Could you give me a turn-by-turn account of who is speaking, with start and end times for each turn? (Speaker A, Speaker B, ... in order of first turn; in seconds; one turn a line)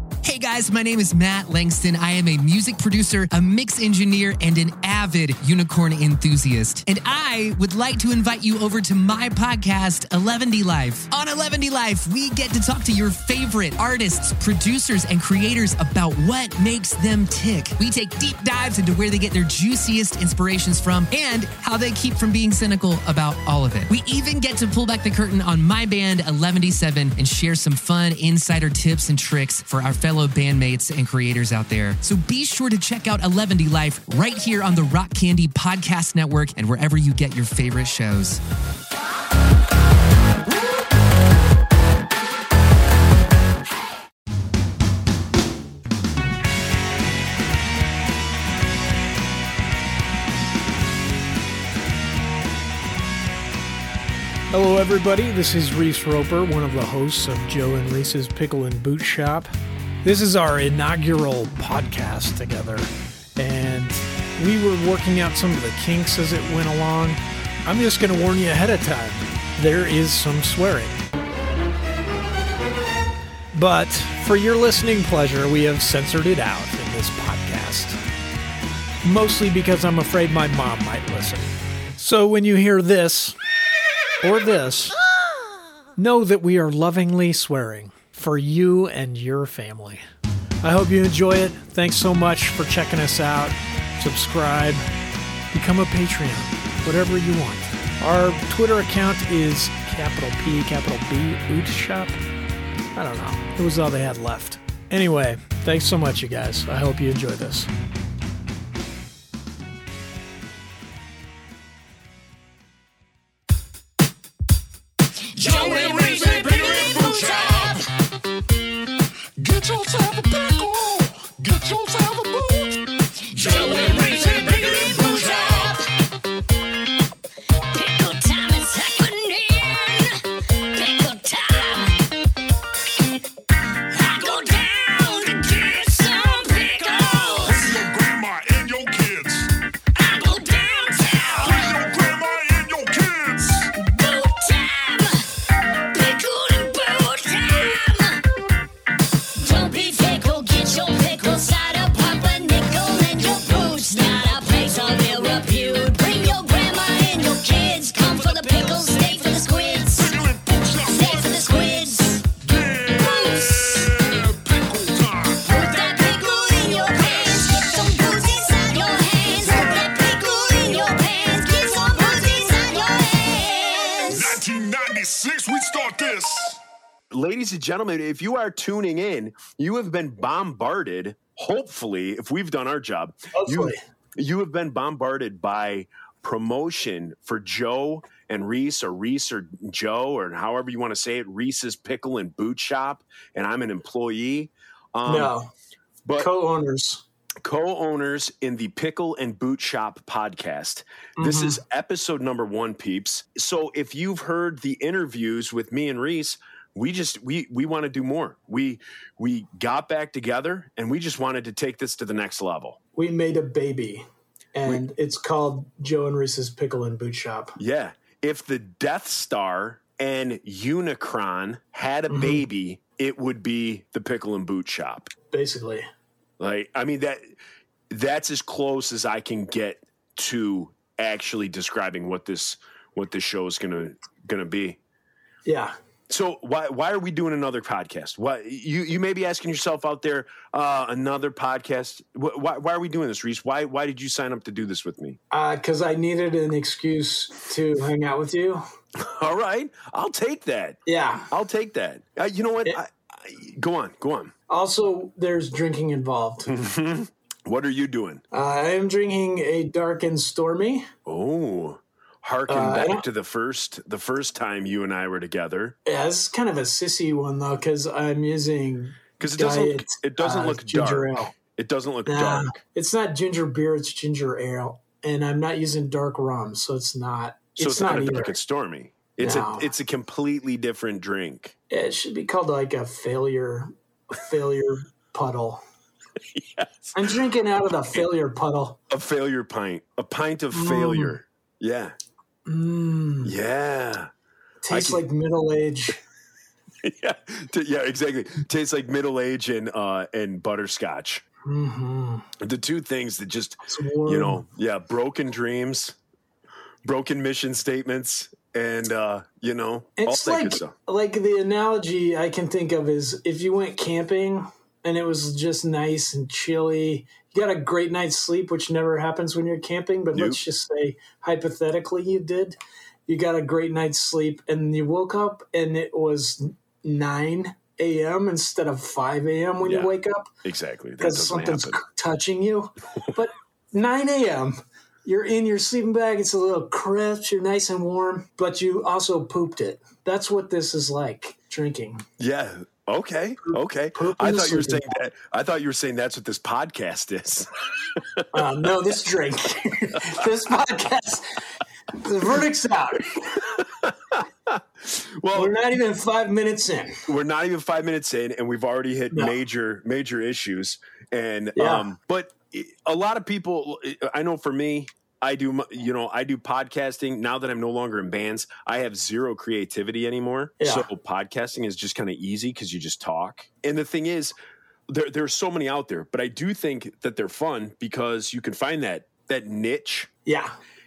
Speaker A: 0.2-38.4
Speaker B: 54.5-59.5
Speaker B: 60.0-71.0
Speaker B: 73.5-78.0
Speaker B: 79.0-83.4
Speaker B: 84.2-85.0
Speaker B: 86.0-90.0
Speaker B: 90.6-94.9
Speaker B: 95.5-102.2
Speaker B: 103.0-107.7
Speaker C: 115.4-117.8
Speaker D: 115.4-117.8
Speaker C: 119.4-125.8
Speaker D: 123.3-125.8
Speaker D: 127.7-132.0
Speaker D: 133.9-137.8
Speaker C: 136.8-139.5
Speaker D: 140.0-141.8
Speaker C: 141.4-143.7
Speaker D: 143.8-145.3
Speaker D: 145.9-148.2
Speaker D: 149.4-160.2
Speaker C: 160.0-161.8
Speaker D: 160.9-162.3
Speaker C: 162.4-167.8
Speaker D: 165.4-174.4
Speaker C: 169.4-170.2
Speaker C: 174.1-176.6
Speaker E: 177.1-195.3
Speaker B: 183.3-183.8
Speaker B: 195.1-195.5
Speaker E: 196.1-196.3
Speaker B: 196.2-197.0
Speaker E: 197.4-212.8
Speaker B: 201.2-201.6
Speaker B: 213.0-217.6
Speaker E: 217.6-225.1
Speaker B: 222.1-222.4
Speaker B: 225.3-225.9
Speaker E: 226.4-227.2
Speaker E: 227.9-234.8
Speaker B: 235.5-235.7
Speaker E: 236.1-245.2
Speaker B: 245.3-248.6
Speaker E: 249.0-254.3
Speaker B: 250.9-251.3
Speaker B: 254.5-256.5
Speaker E: 256.5-258.2
Speaker B: 258.3-260.9
Speaker E: 261.1-265.8
Speaker B: 262.5-263.1
Speaker B: 265.9-271.3
Speaker E: 269.2-272.6
Speaker B: 272.1-278.4
Speaker E: 277.6-281.5
Speaker B: 279.2-279.7
Speaker B: 281.7-285.6
Speaker E: 286.3-287.1
Speaker B: 286.9-288.8
Speaker E: 288.9-291.9
Speaker B: 290.5-291.2
Speaker B: 292.5-293.4
Speaker E: 293.2-294.1
Speaker B: 294.6-296.0
Speaker E: 294.7-295.0
Speaker E: 296.8-301.2
Speaker B: 301.4-302.3
Speaker E: 302.4-306.0
Speaker B: 303.7-304.4
Speaker E: 306.8-310.7
Speaker B: 310.0-330.3
Speaker E: 320.1-320.4
Speaker E: 329.6-331.8
Speaker B: 331.0-342.0
Speaker E: 342.2-348.5
Speaker B: 343.4-345.0
Speaker B: 348.3-351.4
Speaker B: 351.9-353.5
Speaker E: 353.4-355.6
Speaker B: 355.3-357.1
Speaker E: 357.1-374.4
Speaker B: 361.6-361.9
Speaker B: 370.6-370.9
Speaker E: 374.9-380.1
Speaker B: 380.3-380.6